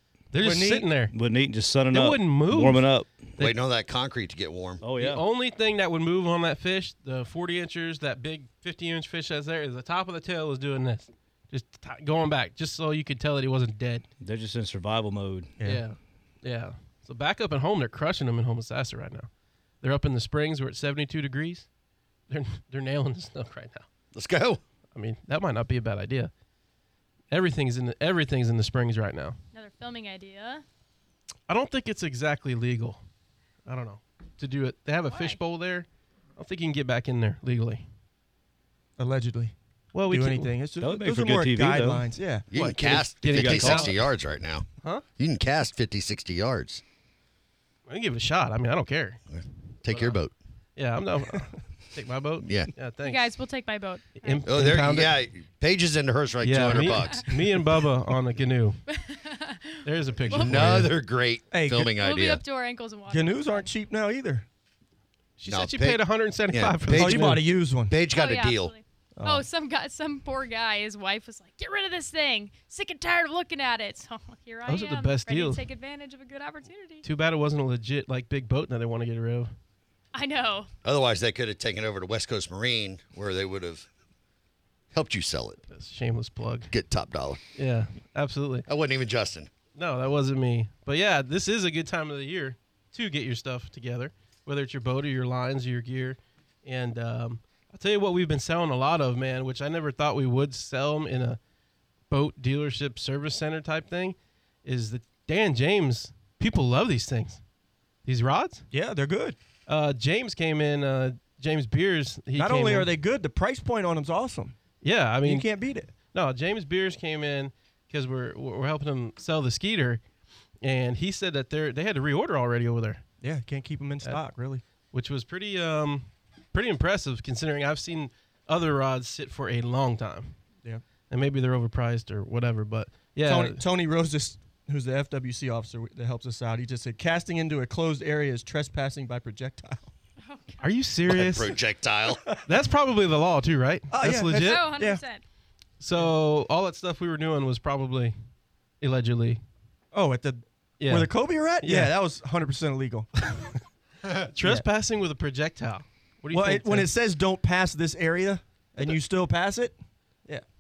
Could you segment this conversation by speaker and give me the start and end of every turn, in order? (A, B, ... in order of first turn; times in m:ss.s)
0:00.3-0:01.1 A
0:00.4-0:00.9 B
0:01.1-0:03.3 C
0:01.9-0:03.5 A
0:03.4-0:04.8 D
0:04.8-0:05.2 C
0:05.0-0:14.1 A
0:14.2-0:15.6 C
0:15.6-0:19.3 A
0:19.8-0:21.7 A
0:22.3-0:23.9 A
0:24.1-0:24.6 D
0:25.0-0:26.3 A
0:27.3-0:29.4 A
0:29.5-0:30.6 E
0:31.5-0:33.0 A
0:33.7-0:37.8 A
0:35.1-0:35.4 E
0:39.0-0:39.6 B
0:39.9-0:40.5 A
0:40.1-0:42.5 B
0:40.8-0:42.1 C
0:42.5-0:44.7 D
0:42.6-0:44.0 A
0:43.2-0:44.0 C
0:45.2-0:46.8 D
0:47.9-0:49.2 A
0:49.3-0:50.3 D
0:49.9-0:50.2 A
0:50.8-0:53.2 A
0:52.4-0:52.7 D
0:53.0-0:54.4 E
0:54.2-0:55.1 A
0:54.4-0:57.7 D
0:56.4-0:58.8 A
0:58.9-1:00.8 E
0:59.8-1:00.9 A
1:00.3-1:02.4 D
1:01.5-1:01.9 B
1:02.0-1:03.7 E
1:03.1-1:04.5 B
1:05.4-1:07.4 A
1:05.5-1:08.7 D
1:07.0-1:08.0 B
1:08.1-1:17.0 E
1:09.2-1:09.4 B
1:14.7-1:15.6 A
1:17.0-1:19.5 A
1:20.1-1:20.7 E
1:20.8-1:23.9 D
1:24.9-1:25.6 D
1:25.7-1:26.7 A
1:26.7-1:27.4 D
1:27.6-1:28.7 A
1:28.7-1:29.5 D
1:29.8-1:41.4 A
1:42.1-1:47.4 A
1:48.0-1:48.6 A
1:48.7-1:49.4 B
1:49.7-1:52.9 A
1:52.4-1:54.6 B
1:54.8-1:55.5 A
1:55.2-1:55.9 B
1:56.1-2:00.0 A
2:00.6-2:03.0 A
2:03.2-2:04.6 B
2:04.9-2:10.4 A
2:11.1-2:13.6 A
2:13.2-2:19.9 B
2:20.2-2:20.6 E
2:20.6-2:21.6 A
2:21.1-2:22.2 D
2:22.4-2:24.6 A
2:23.9-2:25.0 B
2:24.4-2:25.2 E
2:25.8-2:28.1 A
2:28.8-2:29.4 A
2:29.9-2:33.3 B
2:30.8-2:31.1 A
2:31.6-2:31.9 A
2:34.1-2:36.9 A
2:36.3-2:40.4 B